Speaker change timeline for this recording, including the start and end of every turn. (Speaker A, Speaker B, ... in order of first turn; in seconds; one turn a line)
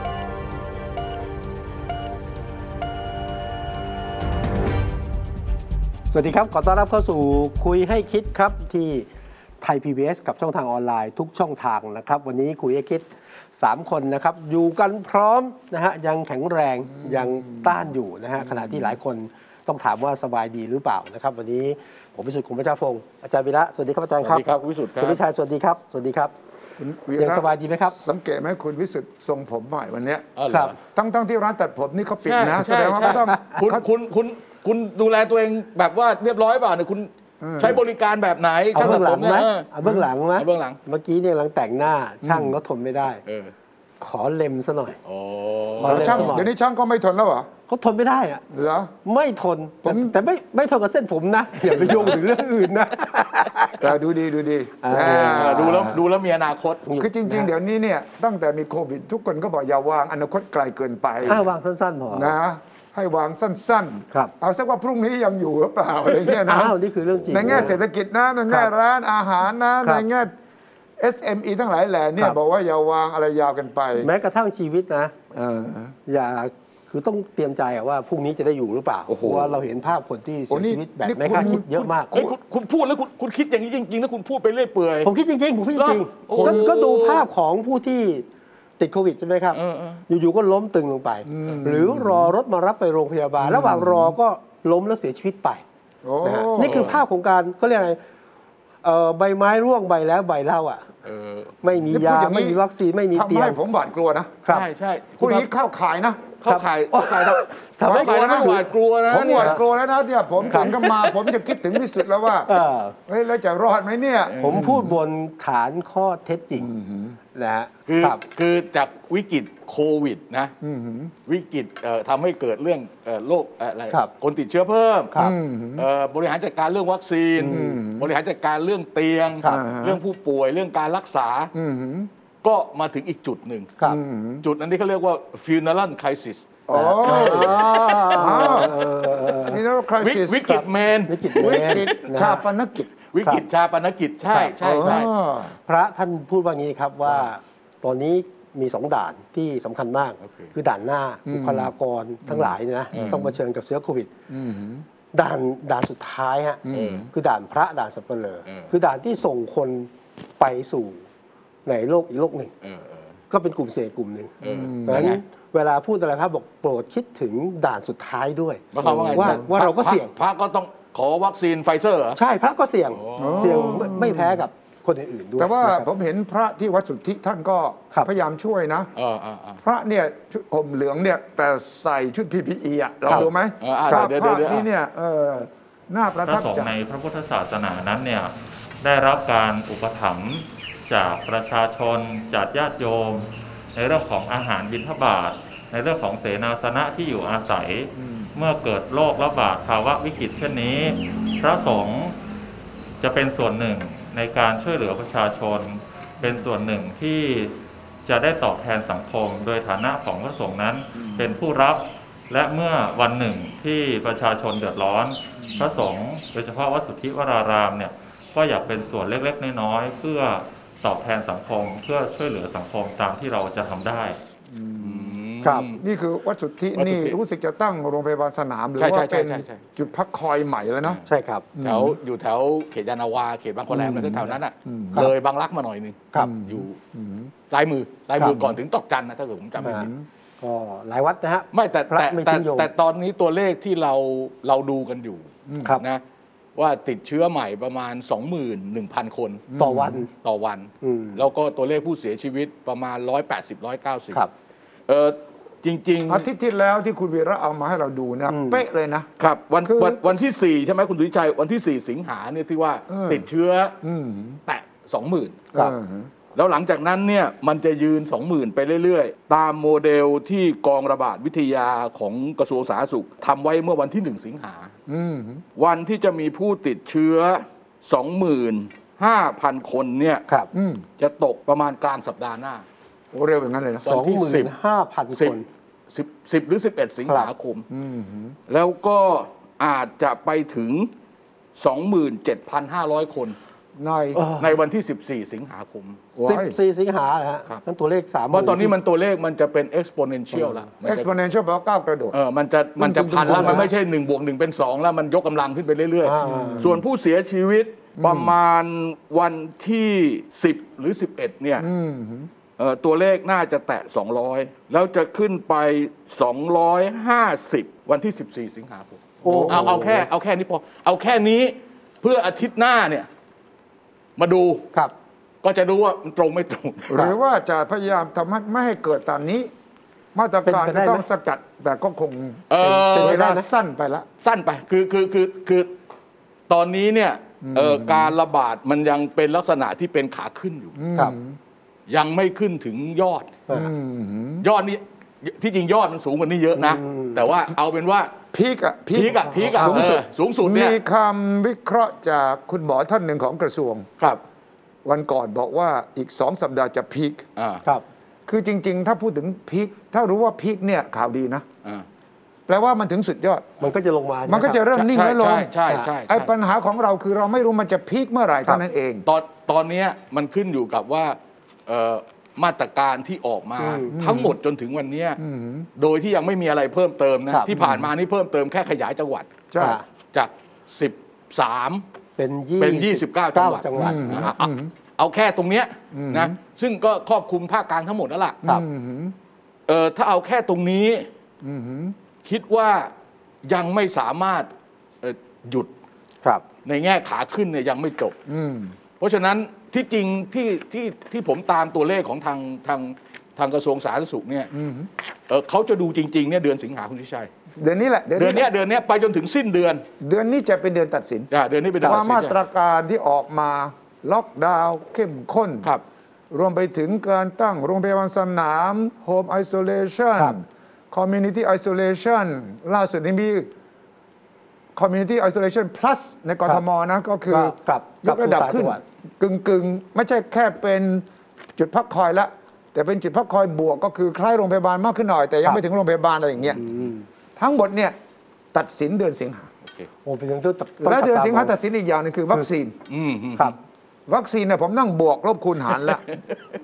Speaker A: 6.1-9.1
Speaker A: 9.6-24.4
Speaker B: 17.0-17.8
Speaker B: 18.4-18.9
Speaker C: 24.2-25.2
Speaker A: 25.0-26.3
Speaker B: 26.8-30.3
Speaker A: 27.2-27.9
Speaker C: 30.4-30.8
Speaker B: 30.8-33.8
Speaker C: 32.2-39.7
Speaker B: 37.4-37.8
Speaker A: 38.7-43.2
Speaker C: 40.4-40.8
Speaker B: 42.2-42.5
Speaker C: 43.2-43.5
Speaker A: 44.0-45.0
Speaker C: 45.0-46.4
Speaker A: 45.8-46.5
Speaker B: 45.8-47.5
Speaker A: 47.7-48.4
Speaker B: 48.5-48.9
Speaker A: 49.0-53.8
Speaker B: 49.8-50.2
Speaker C: 51.7-52.2
Speaker B: 51.8-52.0
Speaker B: 53.8-56.0
Speaker A: 54.8-55.9
Speaker C: 54.9-56.8
Speaker A: 56.9-57.5
Speaker B: 57.0-61.4
Speaker A: 61.3-62.3
Speaker B: 62.1-66.8
Speaker A: 66.4-67.8
Speaker B: 67.3-70.3
Speaker B: 71.0-74.1
Speaker A: 74.0-75.1
Speaker B: 75.3-75.9
Speaker A: 76.1-82.1
Speaker C: 79.1-79.6
Speaker B: 80.5-82.3
Speaker C: 81.2-85.1
Speaker A: 85.0-88.3
Speaker C: 85.7-87.3
Speaker A: 88.8-95.6
Speaker C: 89.5-90.0
Speaker B: 91.3-92.3
Speaker B: 93.4-94.1
Speaker B: 96.0-97.0
Speaker A: 96.2-98.0
Speaker C: 96.6-97.0
Speaker A: 98.8-100.9
Speaker C: 101.0-101.6
Speaker A: 101.6-103.6
Speaker B: 101.9-102.6
Speaker B: 103.1-104.4
Speaker C: 104.5-105.5
Speaker B: 105.2-106.3
Speaker C: 106.4-109.6
Speaker A: 106.5-108.6
Speaker B: 107.8-112.5
Speaker C: 110.4-110.9
Speaker A: 110.5-111.1
Speaker A: 112.5-113.0
Speaker B: 113.1-114.9
Speaker C: 114.3-114.8
Speaker A: 114.4-116.7
Speaker B: 116.6-117.2
Speaker A: 117.3-118.2
Speaker C: 117.9-120.5
Speaker B: 120.6-121.1
Speaker C: 121.2-125.1
Speaker B: 125.1-125.8
Speaker C: 125.8-131.5
Speaker A: 127.4-127.8
Speaker B: 127.5-128.1
Speaker B: 129.4-130.0
Speaker B: 131.5-132.1
Speaker C: 132.4-133.7
Speaker B: 133.8-134.4
Speaker C: 134.4-138.7
Speaker B: 136.7-138.7
Speaker A: 136.7-139.6
Speaker B: 139.3-140.6
Speaker C: 140.0-141.9
Speaker A: 141.1-142.4
Speaker B: 141.3-142.9
Speaker C: 143.1-145.1
Speaker B: 144.4-145.5
Speaker A: 145.7-154.1
Speaker B: 151.3-151.7
Speaker B: 152.2-153.1
Speaker C: 152.9-153.3
Speaker B: 154.3-154.8
Speaker A: 155.1-161.0
Speaker B: 156.6-157.1
Speaker C: 156.7-157.1
Speaker C: 158.5-158.7
Speaker A: 161.7-162.5
Speaker C: 162.6-163.1
Speaker A: 163.3-170.1
Speaker C: 164.4-165.2
Speaker B: 164.4-165.2
Speaker C: 168.7-172.2
Speaker B: 169.0-169.5
Speaker A: 172.2-175.9
Speaker C: 172.9-173.8
Speaker B: 173.2-174.4
Speaker B: 175.4-178.9
Speaker C: 178.9-179.6
Speaker B: 179.6-186.7
Speaker C: 183.1-184.7
Speaker D: 186.2-202.2
Speaker B: 198.0-198.3
Speaker D: 203.0-207.5
Speaker D: 208.0-224.2
Speaker B: 211.0-211.3
Speaker B: 215.4-215.7
Speaker B: 224.5-225.2
Speaker C: 224.8-225.8
Speaker A: 225.4-225.7
Speaker B: 225.8-231.0
Speaker C: 226.8-227.2
Speaker C: 228.8-229.6
Speaker A: 231.1-231.4
Speaker B: 231.5-232.0
Speaker C: 231.6-236.8
Speaker B: 233.7-235.1
Speaker B: 236.2-237.3
Speaker C: 237.5-239.9
Speaker A: 238.2-238.5
Speaker A: 239.6-239.9
Speaker B: 239.6-240.0
Speaker A: 240.4-242.7
Speaker C: 241.5-246.0
Speaker B: 245.5-245.8
Speaker C: 246.6-249.5
Speaker B: 249.5-250.0
Speaker A: 249.6-250.1
Speaker C: 250.1-254.2
Speaker A: 250.8-251.2
Speaker C: 254.9-256.2
Speaker B: 256.1-259.1
Speaker A: 258.3-258.6
Speaker C: 259.2-263.8
Speaker B: 259.6-260.2
Speaker B: 262.9-263.2
Speaker B: 263.8-264.4
Speaker C: 264.5-265.5
Speaker B: 265.5-266.1
Speaker C: 266.3-274.7
Speaker B: 274.9-275.4
Speaker C: 275.6-280.2
Speaker B: 280.5-280.8
Speaker C: 281.0-282.6
Speaker B: 283.1-283.9
Speaker C: 283.8-284.5
Speaker A: 283.9-285.4
Speaker C: 285.9-287.6
Speaker B: 287.7-288.4
Speaker C: 288.5-290.9
Speaker C: 291.6-293.4
Speaker B: 293.8-294.2
Speaker A: 294.1-294.5
Speaker C: 294.4-296.1
Speaker B: 296.1-296.6
Speaker A: 296.2-298.7
Speaker C: 298.3-301.1
Speaker B: 300.8-302.2
Speaker C: 302.1-311.7
Speaker B: 302.8-303.7
Speaker A: 303.2-303.7
Speaker A: 306.0-306.7
Speaker B: 306.2-306.7
Speaker B: 308.0-308.3
Speaker B: 311.6-312.3
Speaker C: 312.6-323.1
Speaker A: 319.2-320.0
Speaker B: 319.2-320.0
Speaker C: 324.2-324.7
Speaker C: 325.4-327.1
Speaker B: 326.9-329.5
Speaker B: 330.1-332.4
Speaker A: 330.4-331.0
Speaker C: 332.5-333.2
Speaker A: 332.6-333.5
Speaker B: 332.9-334.1
Speaker C: 334.2-335.7
Speaker C: 336.5-340.7
Speaker B: 337.4-338.1
Speaker B: 340.7-341.4
Speaker C: 341.9-343.4
Speaker B: 343.5-344.5
Speaker C: 344.4-348.1
Speaker A: 346.6-347.2
Speaker B: 348.3-353.9
Speaker C: 348.9-350.8
Speaker A: 349.4-349.9
Speaker B: 354.8-357.2
Speaker C: 357.4-357.6
Speaker B: 358.3-361.4
Speaker B: 362.5-363.5
Speaker A: 363.6-364.6
Speaker B: 364.3-365.5
Speaker C: 364.7-366.3
Speaker B: 366.1-369.0
Speaker C: 369.1-375.2
Speaker A: 373.6-373.9
Speaker B: 373.9-374.4
Speaker B: 375.2-375.7
Speaker C: 375.8-379.4
Speaker B: 377.5-377.9
Speaker B: 379.5-379.8
Speaker A: 379.6-379.8
Speaker C: 380.1-381.8
Speaker A: 382.2-384.2
Speaker C: 382.6-388.4
Speaker B: 383.7-384.7
Speaker B: 385.9-386.3
Speaker B: 388.4-389.1
Speaker C: 389.7-391.1
Speaker B: 391.4-391.9
Speaker C: 392.2-392.9
Speaker C: 393.4-394.5
Speaker C: 395.0-395.7
Speaker C: 396.6-398.1
Speaker B: 398.3-398.8
Speaker C: 399.0-404.5
Speaker B: 404.5-404.9
Speaker C: 405.3-407.3
Speaker B: 407.6-408.5
Speaker C: 408.1-409.8
Speaker B: 410.0-411.3
Speaker C: 411.3-412.3
Speaker B: 411.8-415.7
Speaker B: 416.3-423.5
Speaker B: 424.8-431.1
Speaker A: 427.3-428.8
Speaker B: 431.6-436.6
Speaker A: 436.6-437.0
Speaker B: 437.4-437.9
Speaker B: 438.5-439.5
Speaker A: 440.0-441.5
Speaker B: 440.8-442.8
Speaker C: 442.9-443.5
Speaker B: 444.1-446.0